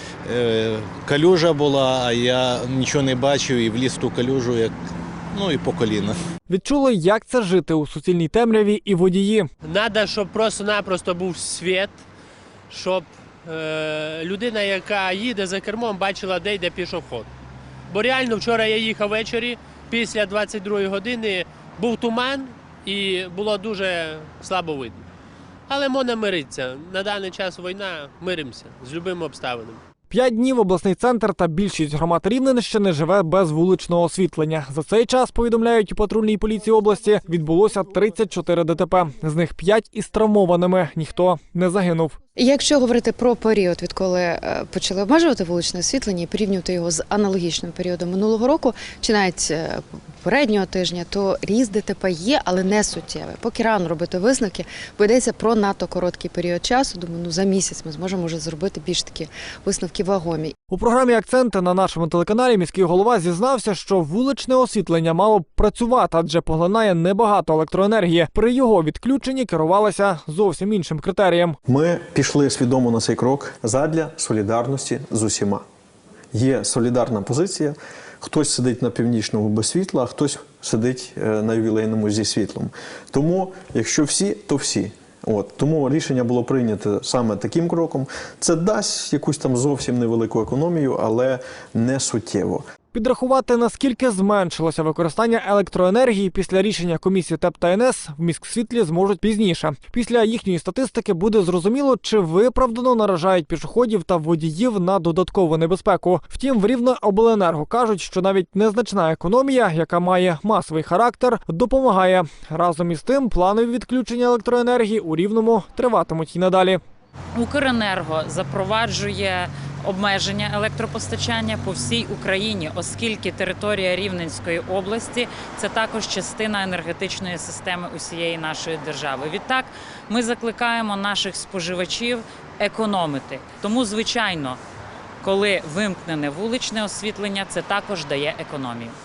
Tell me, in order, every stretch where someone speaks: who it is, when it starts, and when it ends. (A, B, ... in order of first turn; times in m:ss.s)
0:00.3-0:04.7 A
0:05.3-0:06.2 A
0:06.5-0:09.5 B
0:09.6-0:12.0 C
0:12.7-0:17.3 C
0:17.9-0:25.0 C
0:25.7-0:29.8 C
0:30.1-0:42.2 B
0:42.4-1:00.6 D
1:00.7-1:11.6 B
1:11.7-1:15.6 E
1:16.3-1:32.6 E
1:32.9-1:56.8 B
1:57.4-2:14.6 F
2:15.2-2:19.0 F